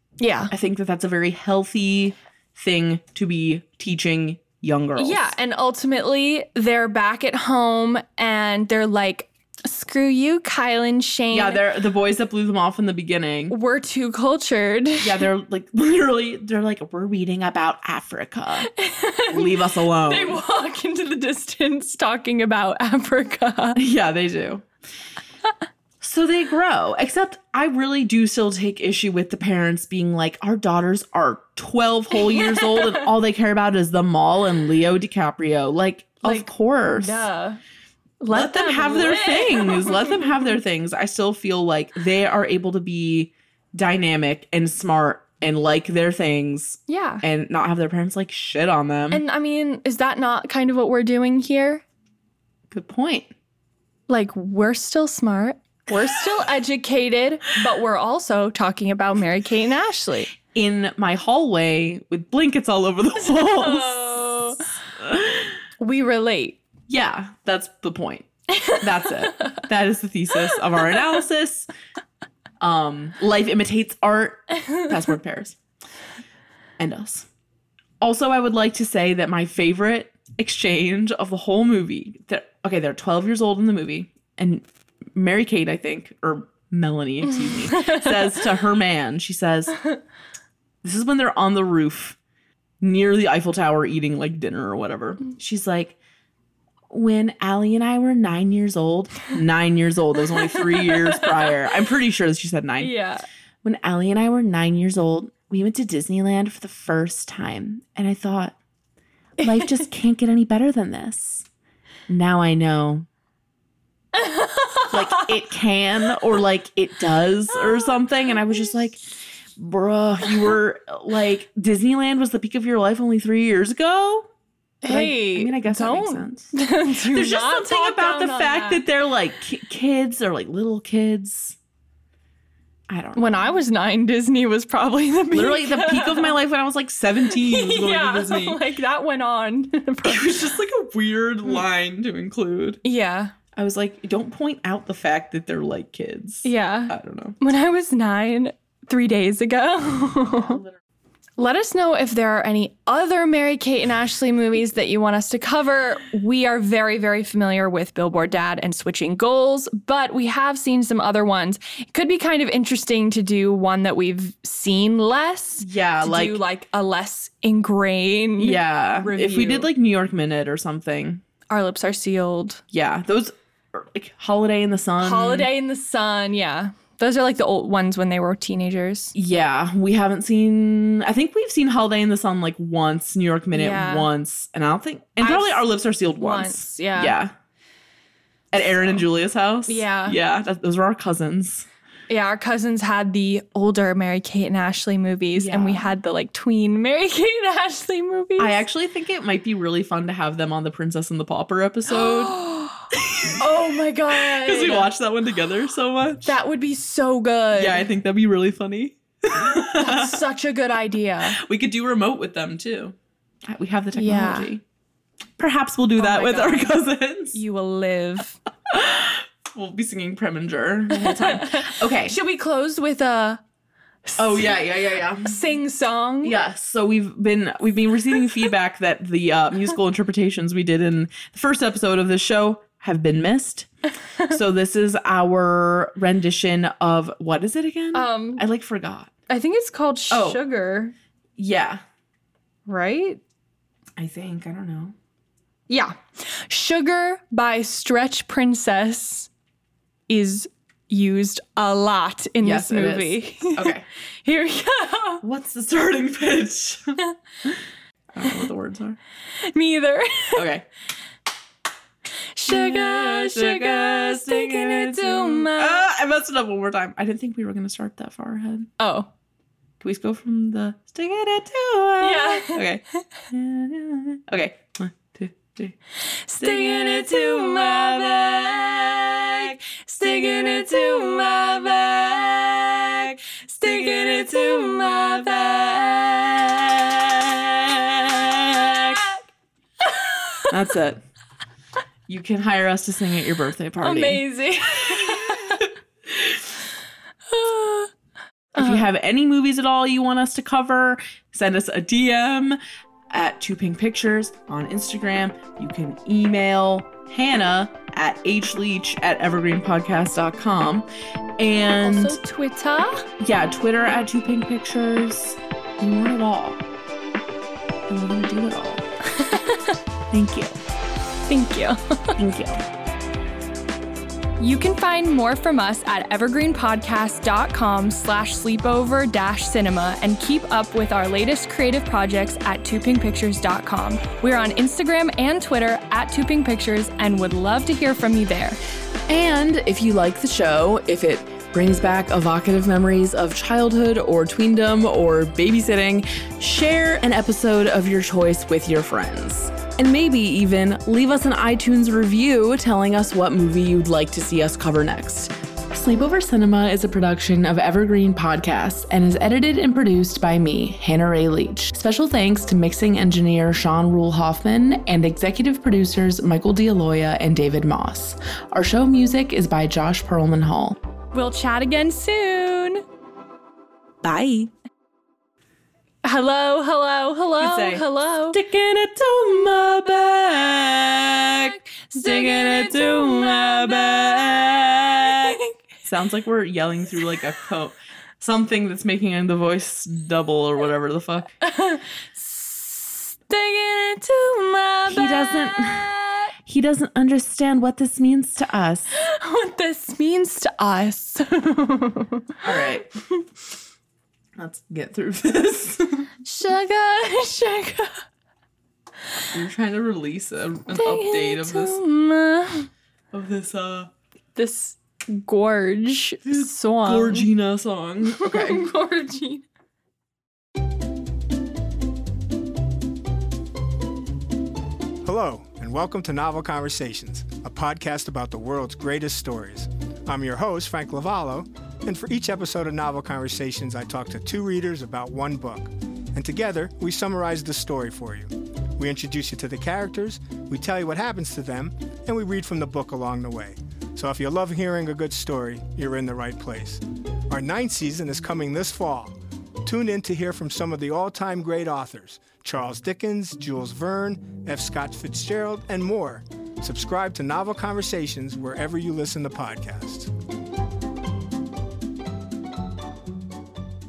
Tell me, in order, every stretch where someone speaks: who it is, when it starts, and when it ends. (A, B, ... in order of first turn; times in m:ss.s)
0:00.2-0:00.5 A
0:00.5-0:05.4 B
0:05.0-0:11.6 A
0:11.3-0:13.5 B
0:13.5-0:15.2 A
0:15.0-0:18.7 B
0:18.7-0:23.8 A
0:19.3-0:20.4 B
0:23.8-0:24.6 B
0:26.0-0:37.3 B
0:32.3-0:33.0 A
0:36.2-0:37.6 A
0:38.2-0:40.3 A
0:38.3-0:49.2 B
0:46.9-0:47.2 A
0:49.1-0:51.8 A
0:52.7-0:53.3 B
0:54.1-1:00.3 A
1:00.5-1:04.1 B
1:03.2-1:04.7 A
1:05.0-1:05.5 B
1:05.8-1:06.6 A
1:06.9-1:11.7 B
1:08.5-1:09.6 A
1:12.6-1:15.6 B
1:16.8-1:17.3 B
1:18.0-1:29.8 B
1:27.7-1:28.0 A
1:30.8-1:32.2 B
1:32.8-1:36.0 B
1:36.9-1:42.9 B
1:40.4-1:41.4 A
1:42.8-1:43.2 A
1:43.6-1:48.5 B
1:49.4-1:49.8 A
1:49.4-1:51.4 B
1:52.1-1:53.0 B
1:54.1-1:55.3 A
1:54.9-1:59.0 B
1:59.6-2:04.3 B
2:04.8-2:08.8 A
2:04.8-2:06.6 B
2:07.1-2:11.6 B
2:12.9-2:13.6 B
2:13.1-2:16.4 A
2:15.3-2:18.6 B
2:17.3-2:20.3 A
2:20.0-2:22.8 B
2:22.8-2:23.3 A
2:23.5-2:27.4 B
2:26.4-2:30.6 A
2:30.3-2:30.7 B
2:31.4-2:49.7 A
2:45.6-2:46.4 B
2:48.4-2:51.2 B
2:51.5-2:52.6 A
2:52.7-2:55.5 B
2:55.0-2:59.1 A
2:59.1-3:07.3 B
3:03.5-3:04.1 A
3:05.2-3:05.6 A
3:06.2-3:07.2 A
3:08.5-3:11.7 B
3:09.7-3:10.2 A
3:12.1-3:18.6 A
3:15.3-3:15.9 B
3:18.4-3:22.4 B
3:21.9-3:22.9 A
3:22.9-3:23.4 B
3:23.4-3:24.9 A
3:24.1-3:26.4 B
3:26.2-3:27.9 A
3:27.5-3:30.2 B
3:29.4-3:31.4 A
3:31.3-3:34.6 B
3:34.0-3:34.5 A
3:35.4-3:37.4 B
3:36.0-3:36.8 A
3:37.3-3:38.4 A
3:38.7-3:42.2 B
3:40.9-3:43.4 A
3:44.1-3:44.6 A
3:44.2-3:45.4 B
3:45.2-3:46.4 A
3:46.2-3:53.7 B
3:54.3-3:59.1 B
3:57.9-3:58.4 A
3:59.3-4:00.9 A
4:00.1-4:00.4 B
4:01.4-4:01.8 B
4:02.7-4:03.2 A
4:04.0-4:04.9 B
4:05.7-4:09.3 A
4:10.1-4:13.7 A
4:12.4-4:13.8 B
4:14.2-4:15.2 A
4:15.2-4:17.6 B
4:18.1-4:19.0 B
4:19.4-4:20.5 A
4:20.3-4:20.6 B
4:22.3-4:25.8 A
4:22.5-4:28.7 B
4:28.8-4:29.1 A
4:29.8-4:35.8 B
4:32.0-4:32.6 A
4:36.2-4:38.8 A
4:36.4-4:49.1 B
4:39.8-4:42.0 A
4:43.4-4:45.9 A
4:48.6-4:49.2 A
4:49.8-4:50.5 A
4:50.5-4:51.0 B
4:52.1-4:54.2 B
4:53.8-4:55.7 A
4:54.8-4:55.6 B
4:57.3-4:57.9 A
4:58.5-5:02.6 B
4:58.6-4:58.8 A
5:03.1-5:10.9 B
5:11.4-5:12.2 B
5:11.8-5:13.0 A
5:13.2-5:16.6 B
5:17.9-5:18.8 B
5:19.1-5:19.8 A
5:20.1-5:20.6 B
5:21.3-5:22.2 A
5:22.2-5:22.6 B
5:24.4-5:38.6 A
5:39.1-6:10.8 B
6:11.1-6:12.8 A
6:14.0-6:14.5 B
6:16.0-6:18.4 A
6:17.4-6:31.3 B
6:21.9-6:25.5 A
6:31.4-6:36.3 A
6:34.8-6:35.9 B
6:36.4-6:38.9 B
6:39.0-6:43.2 A
6:42.4-6:42.8 B
6:44.4-6:46.1 B
6:46.2-6:48.0 A
6:49.3-6:51.8 B
6:50.7-6:52.7 A
6:53.1-6:53.9 B
6:54.4-6:57.3 A
6:56.2-6:58.6 B
6:58.1-6:59.4 A
7:05.0-7:40.1 C